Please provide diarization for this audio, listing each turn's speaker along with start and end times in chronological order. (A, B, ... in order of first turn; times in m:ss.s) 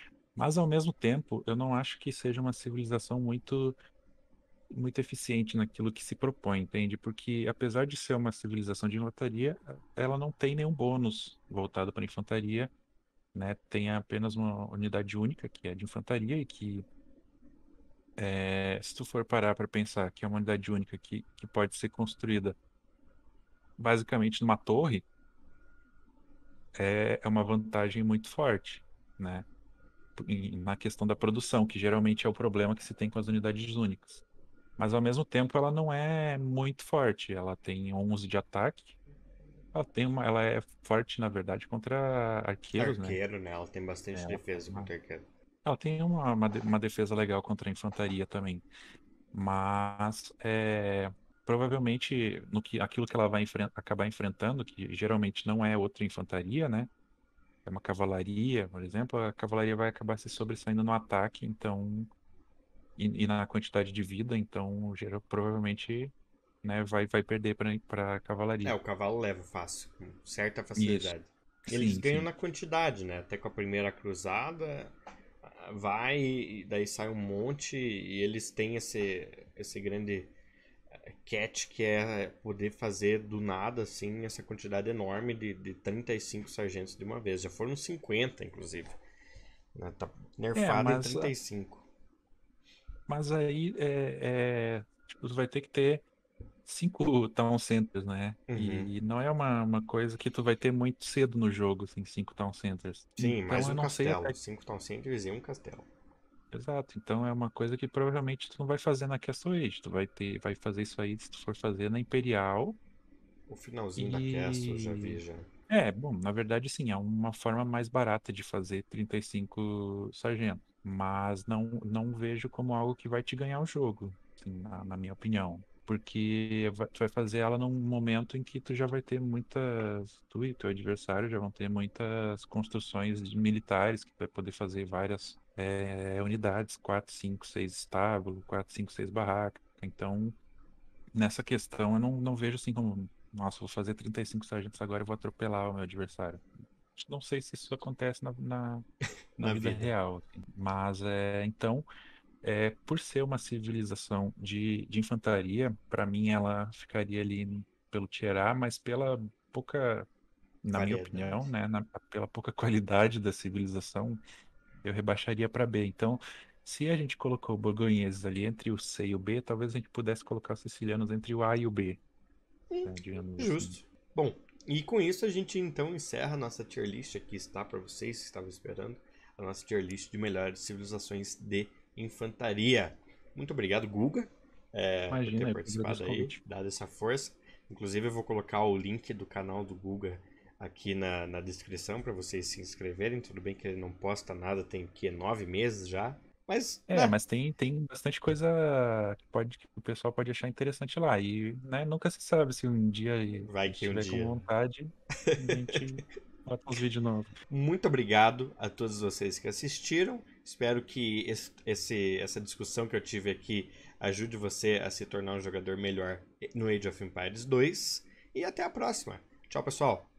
0:00.4-0:03.8 A
0:04.7-0:12.7 A
0:13.3-0:16.9 A
0:18.2-0:22.6 A
0:23.8-0:25.0 A
0:26.8-0:29.5 A
0:30.2-0:34.2 A
0:34.8-0:39.0 A
0:39.7-0:43.2 A
0:42.8-0:45.3 B
0:44.1-0:44.9 A
0:45.6-0:48.7 A
0:49.3-0:56.9 A
0:57.6-1:02.1 A
1:03.0-1:08.8 A
1:08.6-1:20.3 B
1:10.8-1:11.1 A
1:11.7-1:12.3 A
1:21.1-1:29.0 B
1:29.8-1:31.9 B
1:30.6-1:31.3 A
1:33.1-1:36.0 A
1:36.7-1:44.4 A
1:38.5-1:38.9 B
1:43.2-1:45.9 B
1:46.5-1:52.8 A
1:53.5-1:55.5 B
1:54.0-2:20.4 A
2:21.2-2:28.9 A
2:29.4-2:29.9 B
2:29.4-2:31.8 A
2:32.4-2:40.1 A
2:40.6-2:44.2 A
2:40.7-2:41.5 B
2:44.8-2:52.0 A
2:52.7-3:17.2 B
2:52.8-2:53.8 A
3:05.1-3:06.4 A
3:16.9-3:27.3 A
3:23.4-3:24.4 B
3:25.2-3:25.9 B
3:27.5-3:40.1 B